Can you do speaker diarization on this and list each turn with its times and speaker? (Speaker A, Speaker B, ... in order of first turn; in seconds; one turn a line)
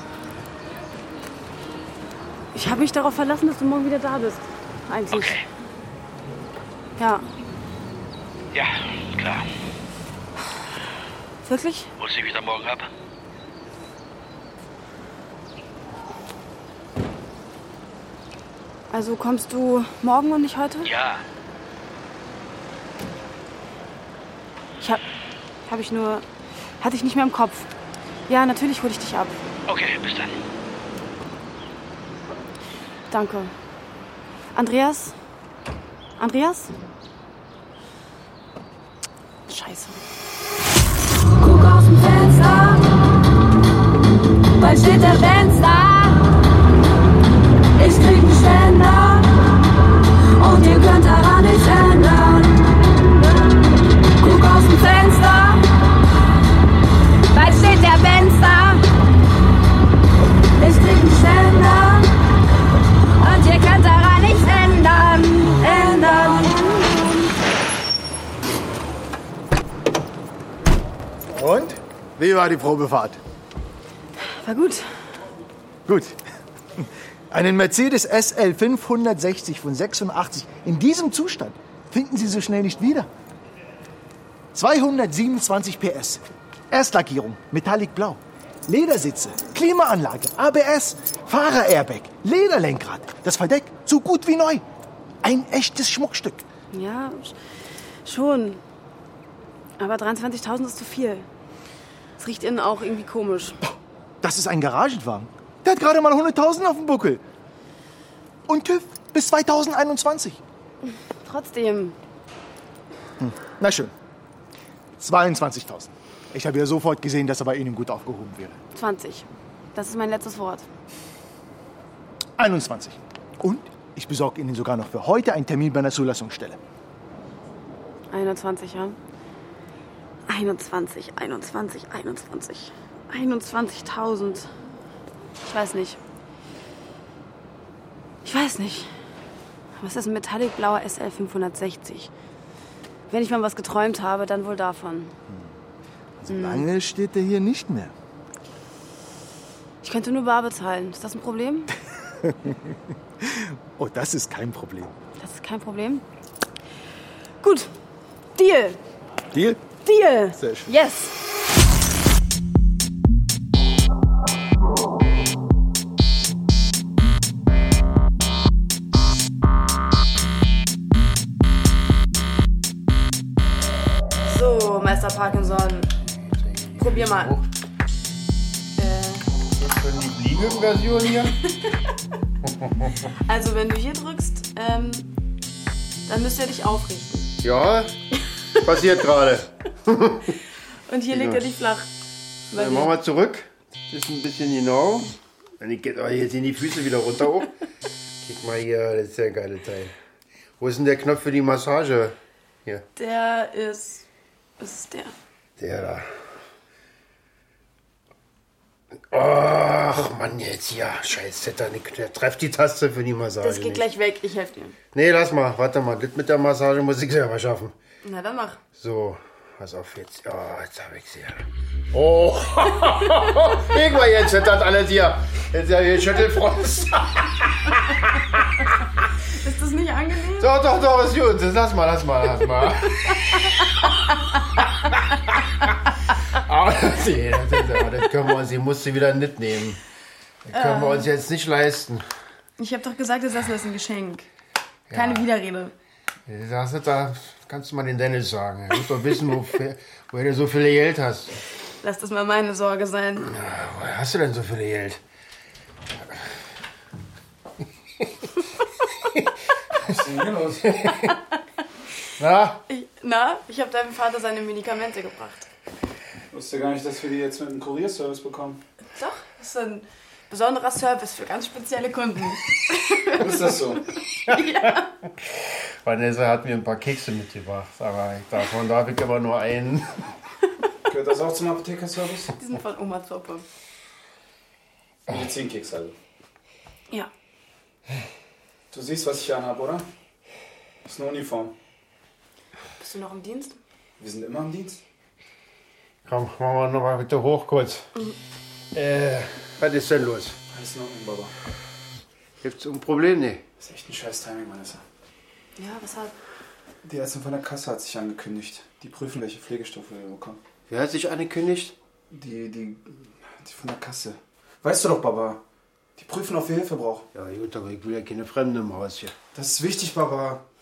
Speaker A: 2.5-5.4
Speaker B: 5.1-5.4
Speaker A: 7.0-7.3
Speaker B: 8.5-9.5
Speaker A: 11.4-11.9
Speaker B: 12.0-12.9
Speaker A: 18.9-20.9
Speaker B: 20.8-21.2
Speaker A: 25.6-26.2
Speaker A: 26.8-27.7
Speaker A: 28.3-29.4
Speaker B: 29.7-30.4
Speaker A: 33.1-33.5
Speaker A: 34.5-35.1
Speaker A: 36.2-36.7
Speaker A: 39.5-40.0
Speaker C: 41.4-42.8
Speaker C: 44.6-46.2
Speaker C: 47.8-49.3
Speaker C: 50.4-52.5
Speaker C: 54.2-55.6
Speaker C: 57.3-58.8
Speaker C: 60.6-62.1
Speaker C: 63.2-66.9
Speaker D: 71.3-73.2
Speaker A: 74.2-74.8
Speaker D: 75.9-76.2
Speaker D: 77.3-83.1
Speaker D: 84.5-94.6
Speaker D: 95.2-96.4
Speaker A: 96.7-97.4
Speaker A: 98.0-98.6
Speaker A: 99.8-101.2
Speaker A: 102.2-103.6
Speaker D: 104.2-107.2
Speaker D: 108.5-110.4
Speaker A: 111.1-112.0
Speaker D: 113.2-113.9
Speaker D: 115.0-118.6
Speaker A: 118.7-120.7
Speaker D: 122.4-126.6
Speaker A: 128.1-129.0
Speaker A: 130.3-134.5
Speaker A: 135.4-136.0
Speaker A: 138.2-138.9
Speaker A: 139.8-142.1
Speaker A: 143.1-145.1
Speaker D: 146.2-147.9
Speaker A: 146.3-146.6
Speaker A: 149.8-151.7
Speaker D: 153.2-154.9
Speaker A: 155.2-156.0
Speaker A: 157.4-157.7
Speaker A: 158.3-158.8
Speaker D: 159.3-159.6
Speaker A: 159.8-161.1
Speaker D: 160.3-160.7
Speaker A: 174.2-175.9
Speaker E: 176.1-177.4
Speaker A: 176.8-177.3
Speaker A: 178.8-179.2
Speaker E: 179.6-181.3
Speaker A: 183.3-185.1
Speaker A: 186.1-187.3
Speaker E: 187.4-187.9
Speaker E: 188.6-190.3
Speaker A: 190.9-191.9
Speaker E: 191.1-191.4
Speaker A: 192.5-192.9
Speaker E: 192.5-197.5
Speaker E: 198.2-199.9
Speaker E: 200.6-202.1
Speaker A: 202.9-204.1
Speaker A: 204.6-205.1
Speaker E: 205.6-206.0
Speaker E: 209.1-213.8
Speaker A: 213.4-214.8
Speaker E: 214.9-217.7
Speaker A: 218.0-218.6
Speaker E: 218.8-227.1
Speaker A: 229.4-230.5
Speaker E: 230.4-233.0
Speaker E: 236.4-239.8
Speaker E: 240.5-242.0
Speaker A: 240.5-241.1
Speaker A: 242.6-244.3
Speaker E: 244.9-245.3
Speaker A: 244.9-245.7
Speaker E: 246.3-251.3
Speaker A: 251.8-253.3
Speaker E: 253.3-255.0
Speaker F: 259.9-260.8
Speaker E: 262.2-262.6
Speaker A: 262.7-265.5
Speaker F: 266.3-268.6
Speaker A: 268.9-273.6
Speaker F: 273.2-273.8
Speaker A: 274.3-274.9
Speaker E: 275.8-280.0
Speaker F: 280.9-282.3
Speaker A: 282.4-283.4
Speaker F: 285.1-285.9
Speaker F: 288.7-289.8
Speaker F: 290.8-291.5
Speaker A: 292.8-293.6
Speaker F: 294.0-294.8
Speaker E: 296.1-297.9
Speaker E: 298.7-300.4
Speaker F: 300.5-301.3
Speaker E: 302.4-303.4
Speaker F: 303.6-304.8
Speaker A: 305.6-306.1
Speaker F: 306.8-310.4
Speaker E: 310.7-311.8
Speaker F: 312.1-315.4
Speaker F: 316.0-317.0
Speaker E: 317.1-319.1
Speaker F: 319.3-320.4